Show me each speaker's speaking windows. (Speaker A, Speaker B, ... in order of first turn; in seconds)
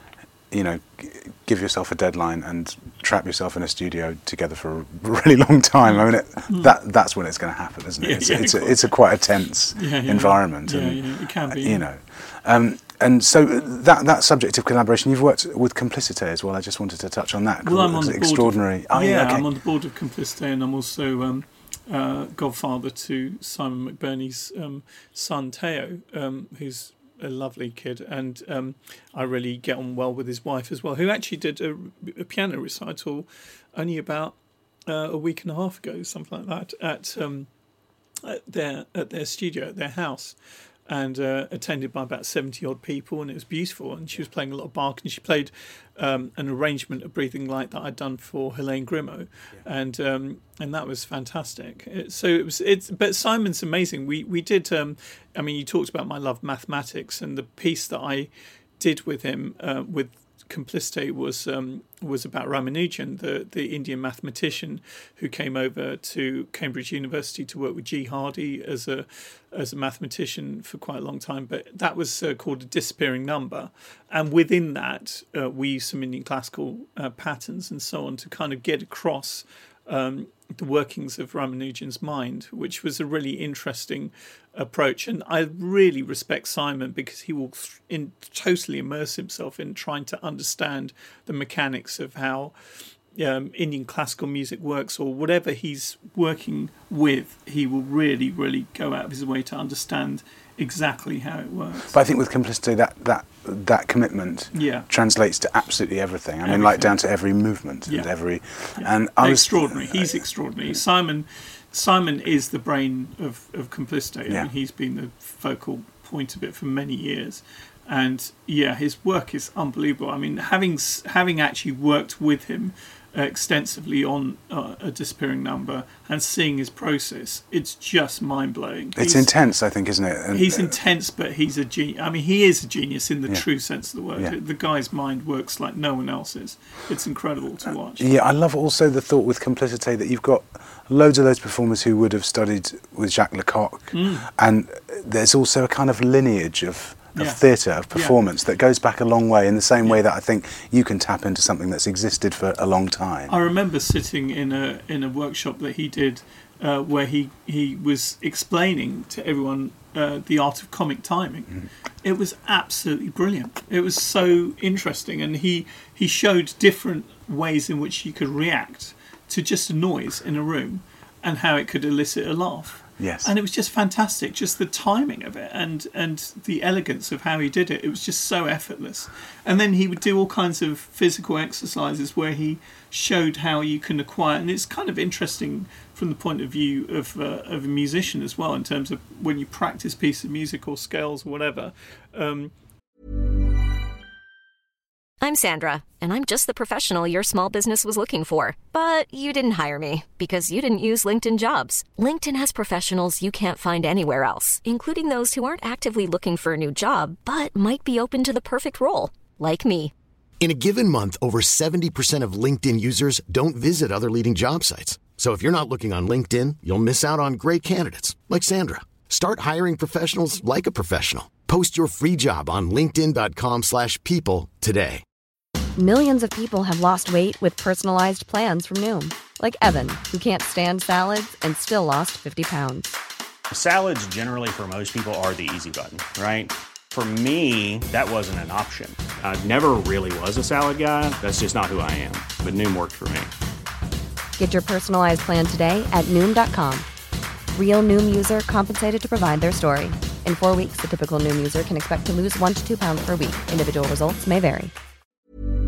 Speaker A: 0.5-19.4, 101.9-110.1, 128.9-130.7, 138.0-153.4, 173.0-173.3
Speaker B: 5.9-6.7, 8.0-9.0, 9.7-11.8, 17.6-37.5, 38.2-92.5, 93.1-102.0, 104.5-104.9, 106.4-106.9, 108.8-129.3, 130.3-138.0, 143.9-144.3, 147.1-148.2, 153.3-192.5
Speaker C: 195.2-209.9
Speaker D: 210.4-225.0
Speaker E: 225.8-232.9, 244.4-246.8, 247.5-254.7
Speaker F: 233.5-243.3